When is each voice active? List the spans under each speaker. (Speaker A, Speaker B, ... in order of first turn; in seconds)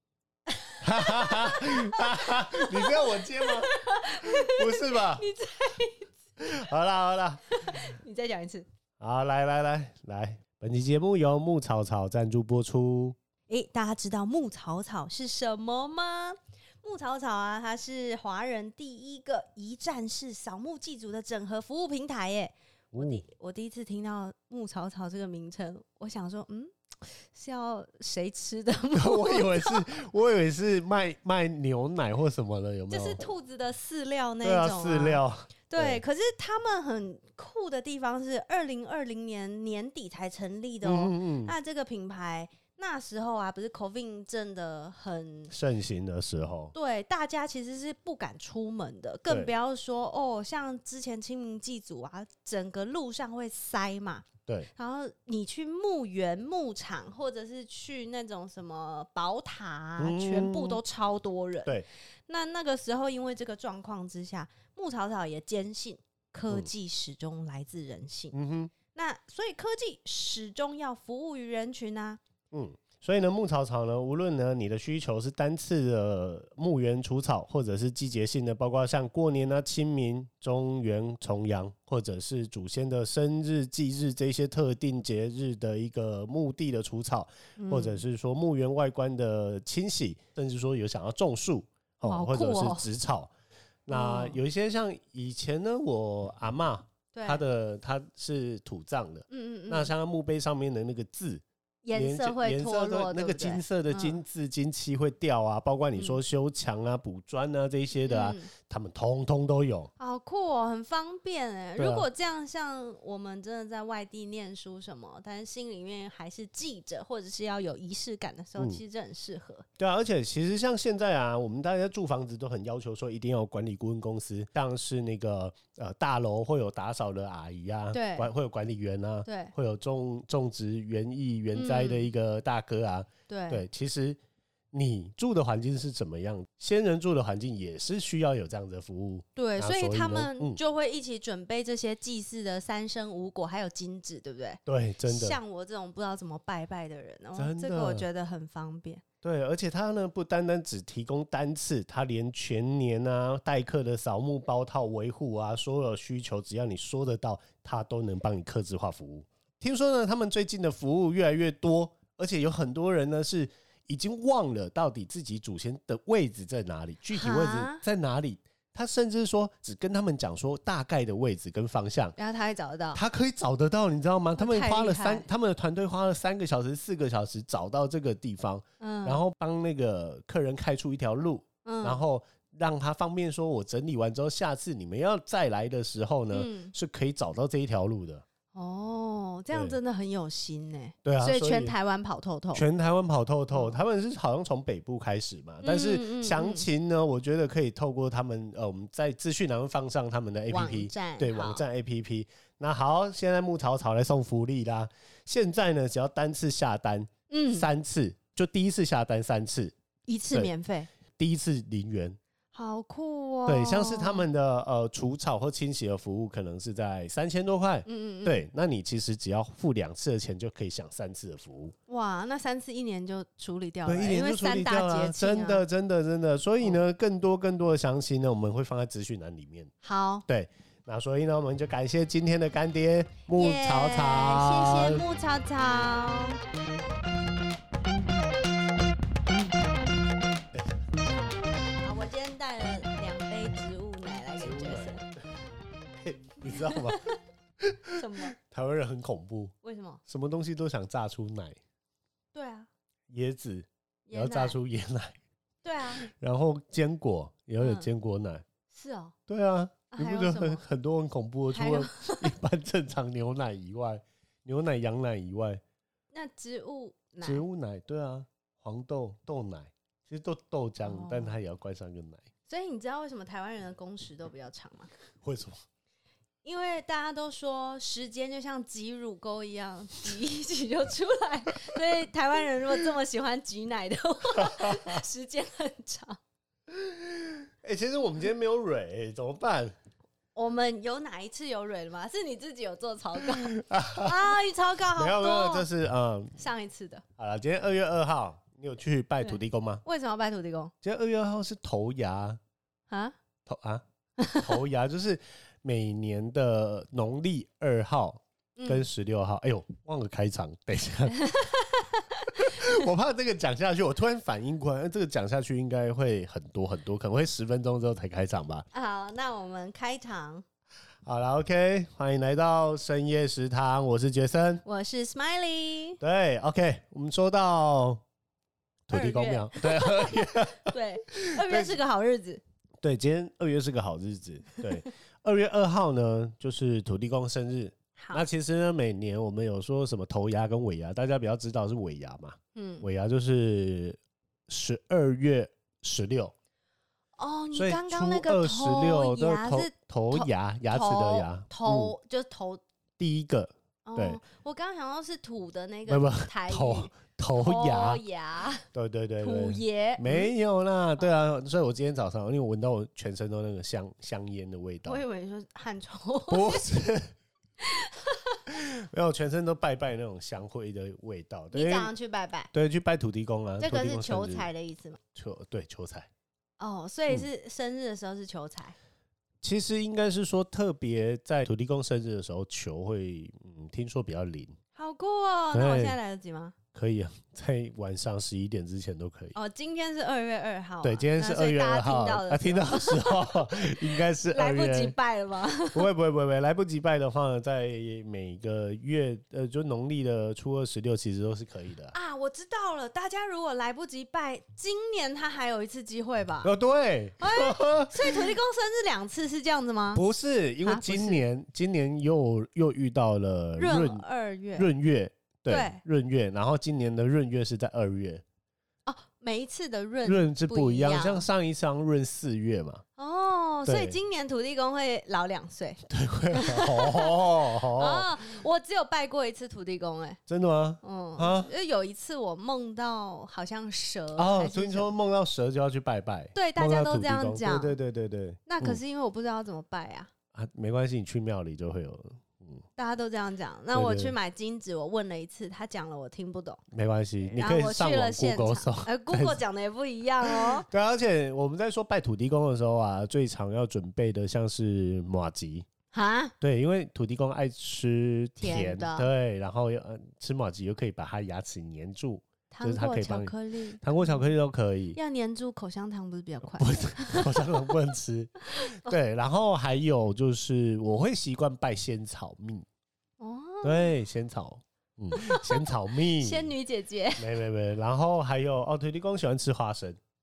Speaker A: 0.5-6.1, 7.5-8.7, 13.5-29.9, 32.9-45.5, 46.7-68.3, 68.9-72.2, 87.6-88.0, 92.0-92.9, 93.9-94.4, 97.1-97.4, 99.3-99.9, 101.8-104.2, 108.0-108.5, 110.0-119.7, 127.9-128.3, 129.2-129.5, 131.5-132.1, 133.3-133.7, 139.3-149.0, 167.1-167.8, 172.2-173.0, 174.4-175.3, 178.8-179.2, 181.7-182.0, 186.3-186.7, 188.5-192.7, 193.5-193.8, 195.6-196.7, 200.5-201.6, 207.3-207.7, 210.1-210.9, 212.5-214.3, 217.8-218.4, 221.9-225.6, 229.8-230.2, 233.3-236.4, 241.8-245.0, 246.7-247.1, 247.9-248.3, 249.6-250.0, 252.3-252.7, 254.1-254.6, 255.6-256.1, 257.6-257.9, 258.7-259.1, 259.9-260.6, 261.5-262.3, 266.1-267.4, 270.8-271.4, 272.5-274.9, 276.4-286.2, 290.3-295.7, 296.4-297.0, 299.2-300.7, 302.9-303.1, 304.2-304.5, 308.6-308.9, 311.1-312.8, 318.7-320.4, 324.6-326.0, 328.9-332.4, 337.9-338.2, 342.6-342.9, 347.2-352.6, 353.9-358.7, 359.2-360.3, 364.8-366.7, 367.6-368.4, 371.5-372.5, 373.6-375.0, 376.6-378.8, 384.8-386.6, 389.3-395.9, 401.9-406.5, 407.2-410.0, 410.6-411.2, 413.6-414.7, 415.5-415.8, 418.9-421.3, 423.0-430.2, 430.8-434.9, 436.3-437.8, 438.4-440.1, 442.8-446.6, 447.2-450.7, 455.9-456.3, 458.4-459.1, 462.5-464.3, 464.9-467.6, 468.5-468.9, 473.2-473.9, 475.1-477.3
Speaker B: 0.8-5.3, 6.4-7.6, 9.0-13.2, 22.9-23.2, 28.9-33.2, 34.4-36.0, 40.8-41.5, 45.5-46.7, 60.0-60.8, 68.3-68.7, 72.5-93.3, 93.9-109.9, 111.8-112.0, 119.8-134.2, 134.7-140.6, 144.7-145.4, 147.3-148.1, 149.2-172.2, 172.9-188.2, 189.5-189.8, 191.0-191.8, 192.5-209.7, 211.1-212.2, 213.4-221.8, 223.8-229.7, 230.3-235.0, 244.3-245.1, 246.0-249.5, 250.0-251.6, 253.1-255.2, 256.0-258.4, 259.3-265.6, 267.2-272.3, 275.2-275.6, 284.4-285.0, 286.7-289.8, 293.3-294.3, 294.9-296.3, 297.2-299.8, 300.8-302.4, 303.4-303.8, 304.4-311.3, 312.3-318.6, 321.1-324.6, 326.0-328.0, 328.9-331.8, 332.8-346.3, 347.5-351.9, 353.0-354.2, 355.9-358.0, 358.7-365.0, 366.3-367.1, 368.5-371.9, 372.5-374.5, 375.1-376.1, 379.4-384.6, 385.5-386.0, 386.7-389.4, 390.8-394.9, 395.7-401.9, 406.4-408.4, 409.9-414.1, 414.6-418.2, 420.1-422.8, 423.6-424.0, 425.9-428.1, 430.3-431.5, 434.1-438.8, 440.3-442.6, 443.7-444.1, 446.7-449.4, 450.2-455.6, 456.4-465.0, 466.6-472.6, 473.6-476.5, 477.2-480.0